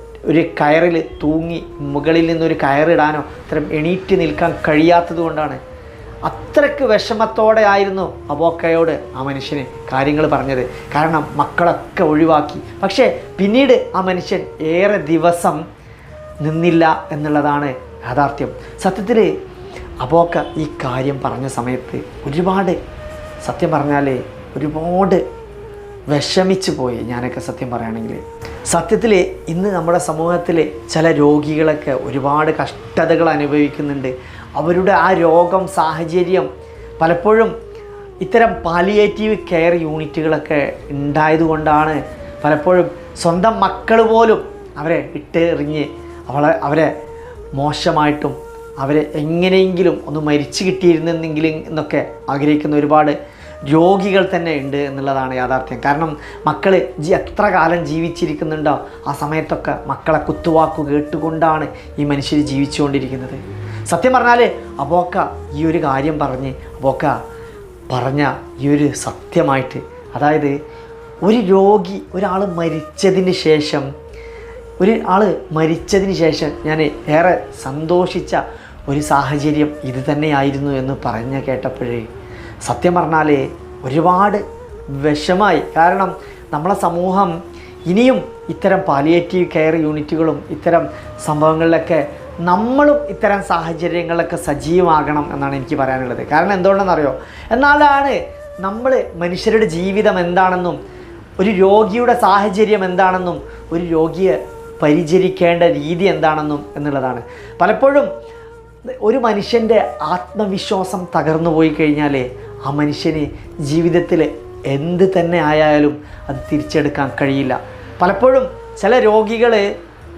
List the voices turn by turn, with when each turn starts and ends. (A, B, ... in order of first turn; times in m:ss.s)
0:00.3-0:05.6 A
0:06.3-0:15.6 A
0:16.4-0:19.3 A
0:20.0-0:22.8 A
0:23.4-0:25.2 A
0:26.1-0:36.5 A
0:37.0-0:37.5 A
0:38.2-0:46.9 A
0:47.5-1:07.2 A
1:07.9-1:10.5 A
1:11.2-1:13.9 A
1:14.8-1:22.1 A
1:22.6-1:24.4 A
1:24.9-1:27.3 A
1:27.9-1:40.8 A
1:41.4-1:48.1 A
1:49.0-1:59.7 A